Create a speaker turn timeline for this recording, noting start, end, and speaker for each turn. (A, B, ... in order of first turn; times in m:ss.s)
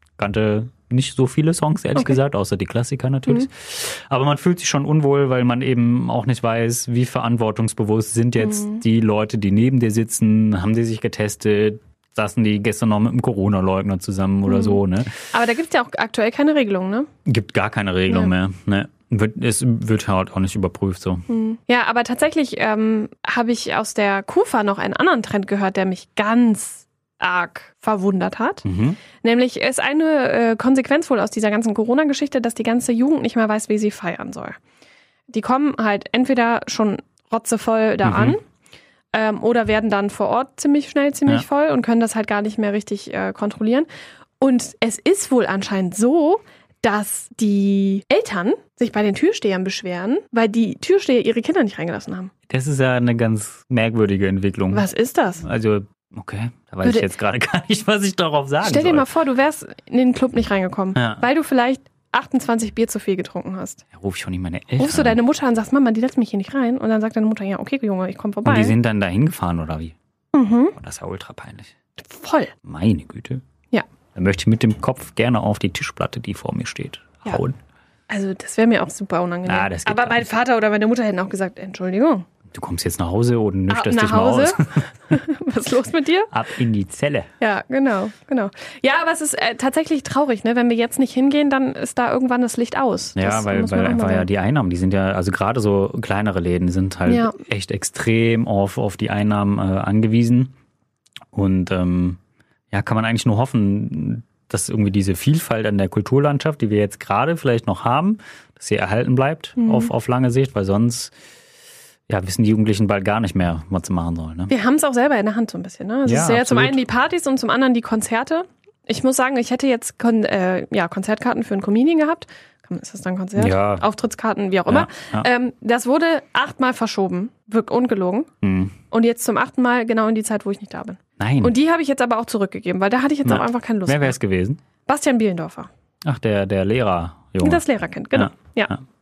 0:00.2-0:15.1 A
0:08.4-0:08.8 B
0:14.5-0:17.1 B
0:17.2-0:21.2 A
0:21.3-0:28.6 B
0:28.6-0:29.0 A
0:29.2-0:34.6 B
0:35.3-0:38.4 B
0:38.0-0:38.4 A
0:39.1-0:43.9 B
0:44.4-0:52.3 B
0:52.5-0:54.9 A
0:54.7-0:55.4 B
0:55.4-0:59.1 A
0:56.8-0:57.1 B
0:58.6-1:03.8 B
1:01.0-1:01.2 A
1:03.9-1:05.2 A
1:04.8-1:08.8 B
1:08.4-1:09.9 A
1:10.3-1:10.7 B
1:10.7-1:11.7 A
1:12.0-1:12.5 B
1:12.6-1:13.4 A
1:14.1-1:17.6 A
1:18.1-1:22.2 B
1:19.4-1:20.2 A
1:22.5-1:24.8 A
1:23.7-1:26.3 B
1:26.3-1:27.3 A
1:27.4-1:34.3 B
1:33.2-1:40.5 A
1:37.1-1:37.4 B
1:41.3-1:42.2 A
1:42.7-1:51.1 A
1:49.6-1:49.9 B
1:52.1-1:54.5 A
1:54.5-2:08.3 B
1:56.0-1:56.8 A
2:03.4-2:03.8 A
2:04.7-2:05.3 A
2:08.4-2:08.7 A
2:08.9-2:14.2 B
2:11.2-2:11.5 A
2:13.2-2:14.6 A
2:14.8-2:15.7 B
2:16.0-2:18.8 A
2:17.4-2:18.8 B